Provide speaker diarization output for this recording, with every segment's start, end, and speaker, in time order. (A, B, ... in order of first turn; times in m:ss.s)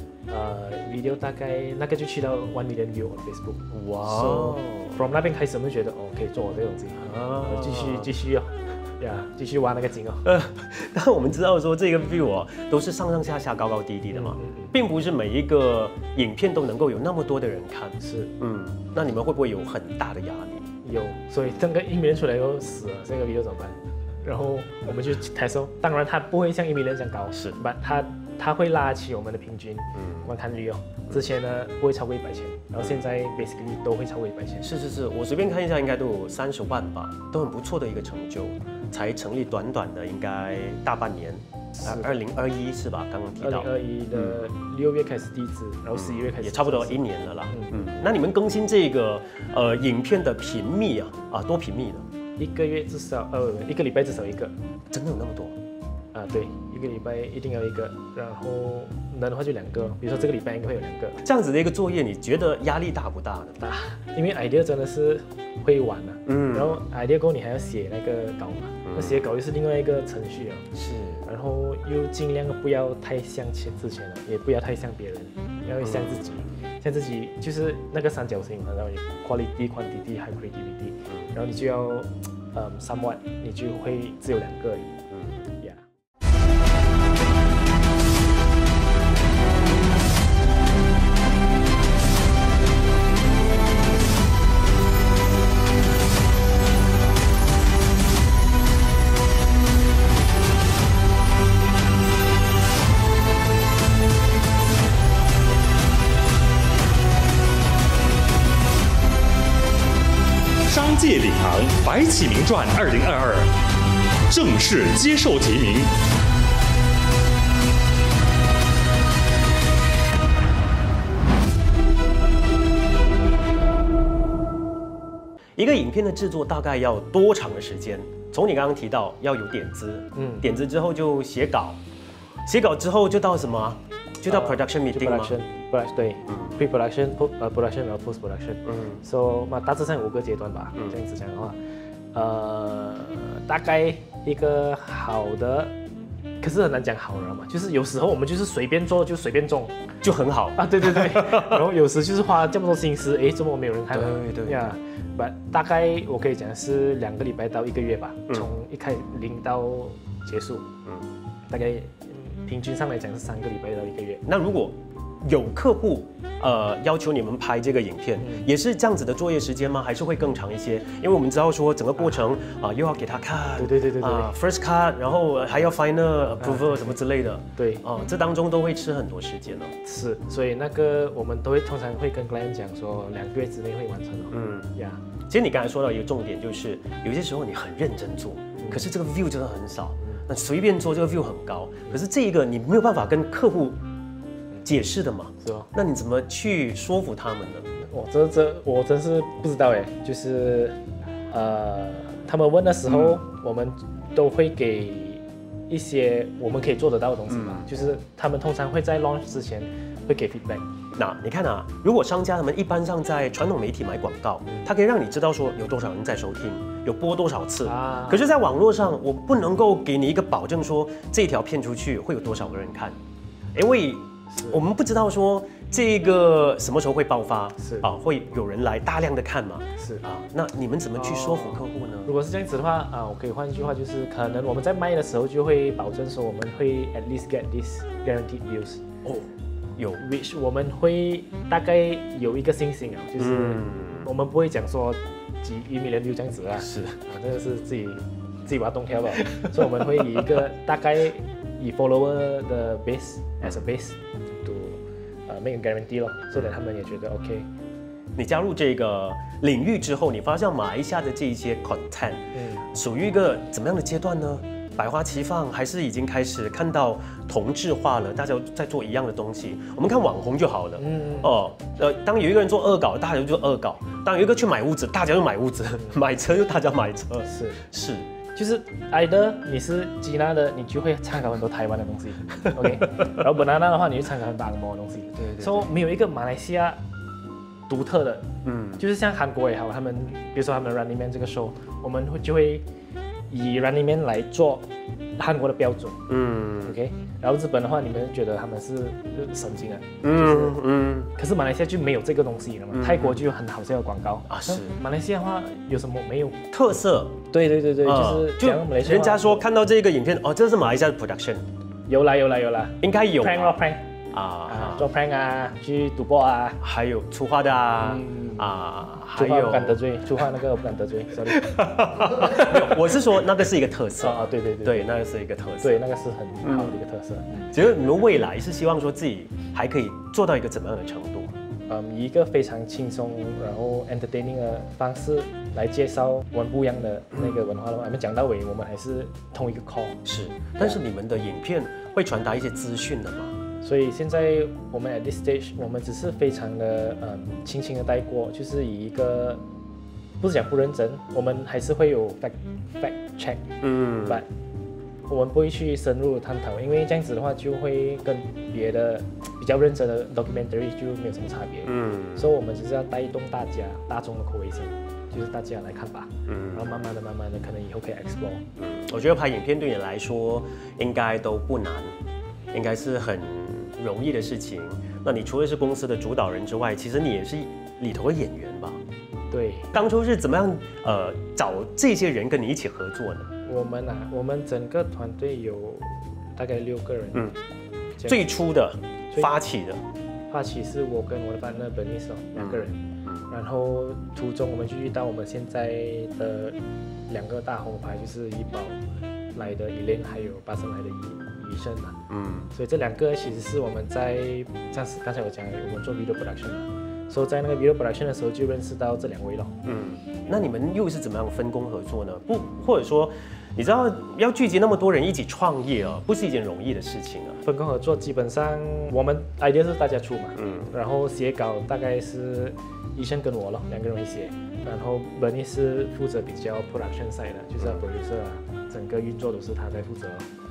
0:00.3-0:10.3 A
0:03.7-0:05.0 B
0:07.0-0:08.1 B
0:10.2-0:20.7 B
0:14.1-0:14.7 A
0:18.0-0:18.3 A
0:20.8-0:34.7 A
0:30.0-0:30.3 B
0:34.6-0:44.4 B
0:41.8-0:42.1 A
0:43.4-0:47.9 A
0:46.0-0:52.1 B
0:52.4-0:54.5 A
0:54.9-0:55.6 B
0:56.1-1:01.2 A
1:01.2-1:03.6 B
1:03.6-1:10.7 A
1:06.3-1:06.8 B
1:08.9-1:09.2 B
1:10.7-1:11.2 B
1:11.2-1:25.0 A
1:15.8-1:16.5 B
1:25.1-1:25.4 B
1:50.7-1:53.5 C
1:54.3-1:55.9 C
2:05.6-2:11.8 B
2:10.1-2:10.5 A
2:12.4-2:15.4 B
2:14.3-2:21.6 A
2:16.3-2:16.6 B
2:18.7-2:19.0 B
2:22.1-2:25.7 A
2:26.4-2:29.8 A
2:30.0-2:31.6 B
2:30.6-2:40.7 A
2:33.9-2:34.8 B
2:41.5-2:44.2 A
2:44.2-2:59.8 B
2:48.2-2:48.5 A
2:53.6-2:54.3 A
2:56.4-2:57.0 A
2:57.6-2:57.8 A
2:59.8-3:05.0 A
3:04.3-3:04.7 B
3:05.3-3:13.8 B
3:08.6-3:08.9 A
3:14.6-3:17.7 B
3:15.4-3:15.7 A
3:17.8-3:20.8 A
3:21.3-3:30.6 A
3:22.9-3:23.2 B
3:27.3-3:27.7 B
3:31.0-3:43.0 B
3:37.6-3:38.3 A
3:43.5-3:52.1 B
3:44.3-3:44.6 A
3:47.6-3:47.9 A
3:49.8-3:50.0 A
3:51.0-3:58.8 A
3:59.0-4:00.0 B
4:00.0-4:17.5 A
4:03.2-4:04.1 B
4:06.6-4:07.0 B
4:18.2-4:38.1 B
4:22.3-4:22.6 A
4:30.8-4:31.3 A
4:37.2-4:37.6 A
4:38.3-4:46.8 A
4:45.1-4:45.7 B
4:47.7-4:52.6 A
4:48.4-4:48.8 B
4:53.3-4:56.1 A
4:56.1-4:56.8 B
4:56.6-5:00.6 A
5:00.0-5:01.1 B
5:01.1-5:06.4 A
5:02.7-5:03.2 B
5:04.3-5:04.8 B
5:06.5-5:07.2 B
5:07.3-5:09.5 A
5:07.8-5:11.4 B
5:11.9-5:13.9 A
5:12.8-5:13.5 B
5:14.1-5:14.9 B
5:14.5-5:16.6 A
5:16.6-5:19.8 B
5:17.8-5:18.5 A
5:19.0-5:22.8 A
5:21.3-5:25.8 B
5:24.0-5:25.0 A
5:25.6-5:27.5 A
5:26.4-5:26.8 B
5:27.5-5:31.3 B
5:31.7-5:40.0 A
5:40.0-5:43.4 B
5:43.6-5:49.4 A
5:50.2-5:54.3 A
5:53.6-5:54.2 B
5:55.1-6:08.4 A
6:01.7-6:02.2 B
6:06.3-6:06.8 B
6:08.6-6:12.0 B
6:12.5-6:18.8 B
6:19.3-6:19.8 A
6:19.7-6:23.3 B
6:23.4-6:27.4 A
6:28.0-6:28.3 A
6:28.0-6:29.8 B
6:30.3-6:36.6 A
6:32.4-6:33.2 B
6:37.1-6:38.8 A
6:39.3-6:42.0 A
6:42.1-6:42.5 B
6:42.5-6:49.6 A
6:49.6-6:57.4 B
6:57.4-7:10.3 A
7:00.4-7:00.7 B